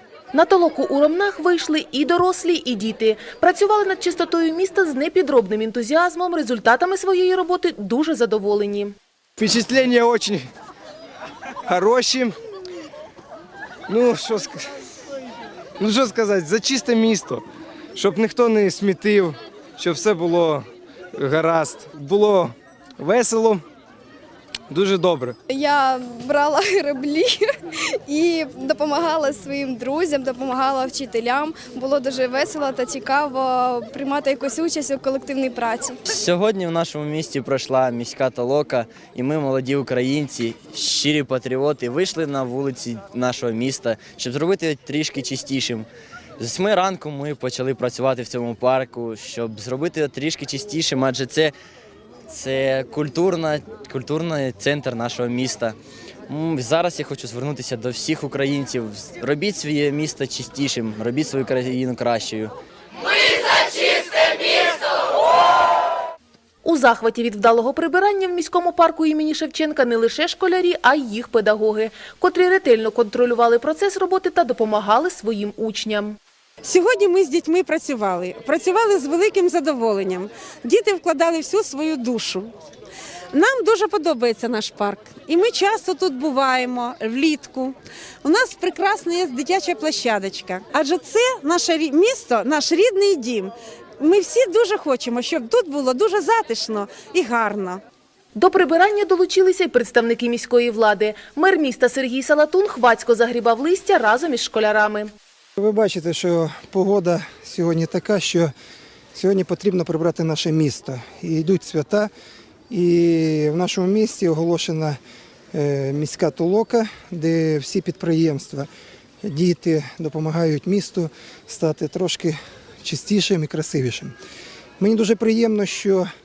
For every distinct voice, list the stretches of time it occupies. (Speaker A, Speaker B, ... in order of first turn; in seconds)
Speaker A: 0.3-8.9, 66.6-76.2, 98.3-105.1
Speaker B: 9.4-10.5, 11.7-12.3, 13.9-14.6, 15.8-17.4, 17.9-23.6, 24.7-25.3
Speaker C: 25.5-27.4, 28.1-36.0
Speaker D: 36.1-45.9, 46.4-51.5, 52.3-55.7, 56.3-62.5
Speaker E: 76.6-82.5, 83.3-97.8
Speaker F: 105.6-108.5, 109.1-112.1, 112.7-115.0, 115.5-118.7, 119.2-124.1, 124.8-126.1